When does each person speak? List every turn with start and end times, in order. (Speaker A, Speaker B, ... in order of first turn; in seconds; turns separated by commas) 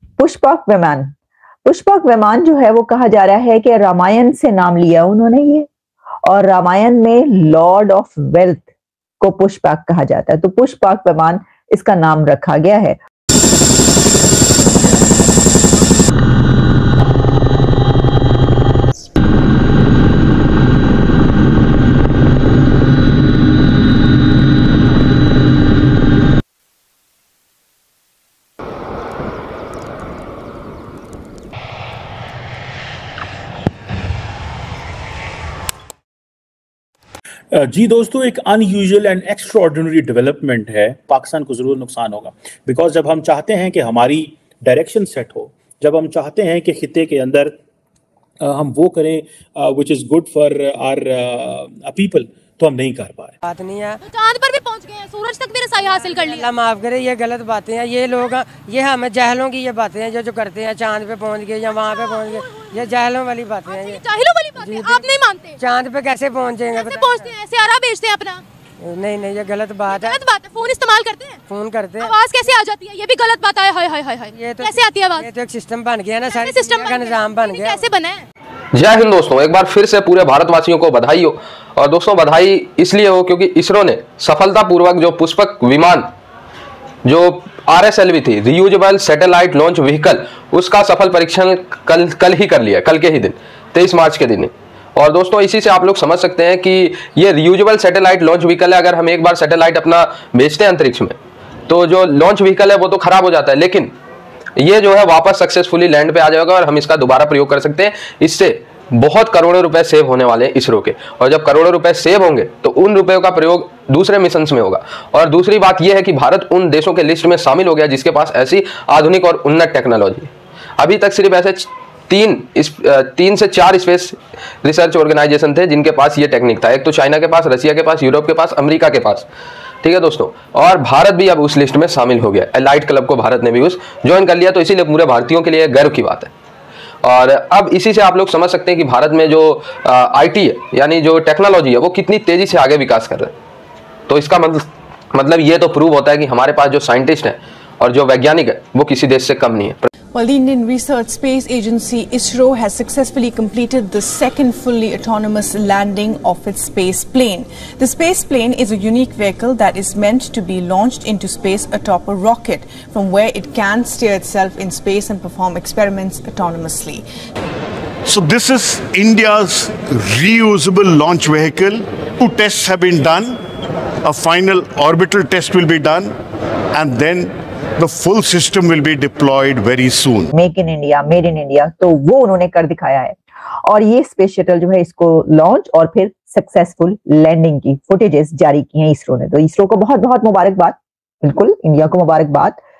Speaker A: 0.2-1.1, Speaker A: 1.6-5.7, Speaker A: 6.3-8.7, Speaker A: 9.2-13.0, Speaker B: 37.5-47.6, Speaker B: 48.4-53.4, Speaker C: 53.4-54.0, Speaker D: 54.1-56.5, Speaker C: 55.8-64.0, Speaker D: 61.9-62.7, Speaker D: 63.7-65.6, Speaker C: 64.6-67.3, Speaker D: 66.7-68.4, Speaker C: 68.8-70.2, Speaker D: 69.9-71.4, Speaker C: 71.5-72.1, Speaker D: 72.0-75.3, Speaker C: 74.3-77.8, Speaker D: 76.4-78.2, Speaker E: 78.7-86.1, Speaker E: 87.0-101.2, Speaker E: 101.7-103.9, Speaker E: 104.6-129.3, Speaker E: 129.8-136.3, Speaker E: 137.0-143.3, Speaker E: 144.1-149.9, Speaker F: 150.1-167.0, Speaker G: 168.1-173.4, Speaker G: 174.0-176.2, Speaker G: 176.7-180.3, Speaker A: 180.3-192.6